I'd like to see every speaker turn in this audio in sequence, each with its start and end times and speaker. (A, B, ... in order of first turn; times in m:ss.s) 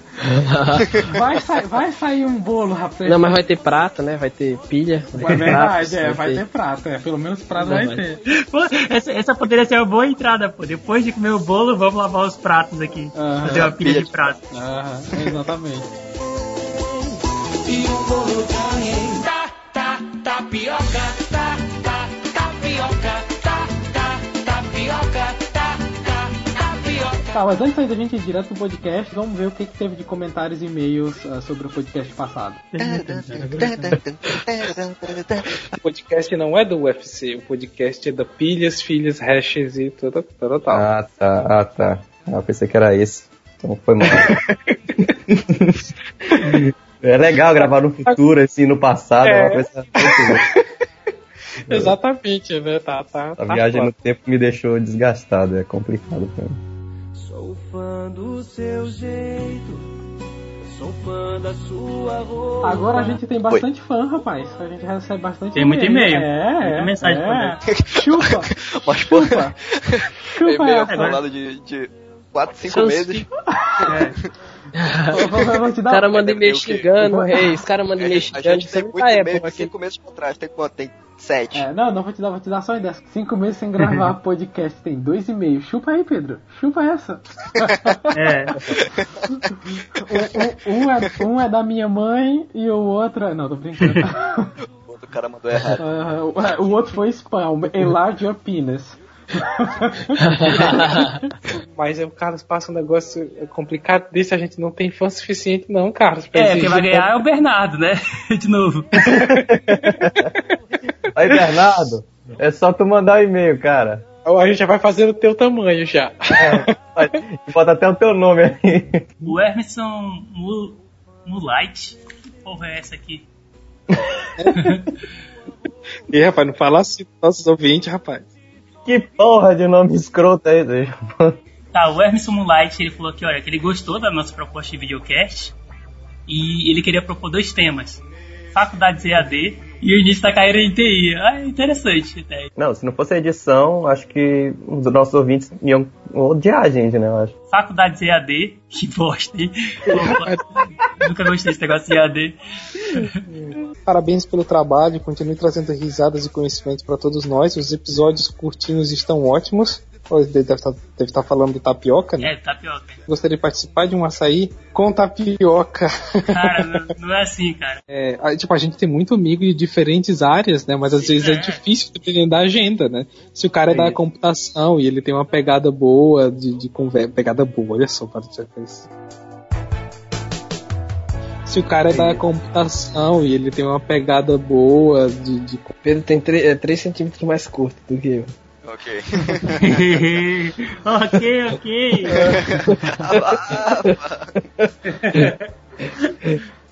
0:00.3-0:00.9 A
0:01.0-0:03.3 B
0:03.0-0:06.4 A
0:05.2-0:08.2 B
0:05.2-0:05.6 C
0:07.6-0:08.0 A
0:08.3-0:14.4 C
0:13.1-0:13.7 B
0:13.4-0:14.4 D
0:14.5-0:15.9 B
0:17.7-0:27.2 E
0:27.3-0:32.6 B
0:32.7-0:33.9 C
0:32.8-0:35.7 D
0:35.7-0:40.9 F
0:40.7-0:44.3 G
0:44.1-0:45.0 F
0:45.3-0:45.7 G
0:46.3-0:46.6 F
0:46.5-0:50.4 G
0:49.2-0:50.5 F
0:51.7-0:53.9 F
0:51.7-0:51.9 G
0:53.4-0:56.6 G
0:57.3-0:59.8 E
1:00.8-1:03.0 E
1:02.6-1:09.6 B
1:05.6-1:07.6 C
1:07.7-1:13.2 D
1:10.4-1:11.2 B
1:10.9-1:11.2 C
1:12.6-1:13.3 A
1:13.6-1:13.9 B
1:13.8-1:14.2 C
1:14.8-1:19.7 A
1:15.1-1:16.1 B
1:16.0-1:16.9 D
1:17.0-1:17.6 B
1:18.0-1:21.7 D
1:21.5-1:28.1 B
1:28.1-1:28.6 C
1:30.0-1:34.5 B
1:34.9-1:35.8 D
1:35.8-1:41.3 B
1:40.2-1:41.1 A
1:41.7-1:47.1 F
1:46.3-1:48.9 C
1:49.0-1:49.9 F
1:49.1-1:50.3 G
1:51.2-1:54.0 G
1:54.2-1:56.7 F
1:56.3-1:59.0 G
1:59.2-2:03.3 C
2:04.4-2:04.7 F
2:04.6-2:04.8 C
2:06.1-2:08.3 F
2:08.9-2:11.4 G
2:11.7-2:15.6 C
2:16.3-2:22.5 C
2:22.6-2:27.3 G
2:27.5-2:30.4 C
2:29.9-2:30.4 F
2:31.0-2:33.2 C
2:33.9-2:42.4 F
2:42.2-2:43.0 C
2:43.1-2:46.8 F
2:46.3-2:47.8 C
2:47.9-2:58.9 F
2:50.9-2:51.6 C
3:01.5-3:05.8 F
3:01.9-3:02.2 A
3:05.8-3:08.3 A
3:08.6-3:09.9 D
3:09.6-3:12.3 C
3:12.0-3:14.0 A
3:12.2-3:14.3 D
3:12.7-3:13.0 B
3:14.6-3:15.3 A
3:14.9-3:15.4 C
3:16.0-3:16.3 C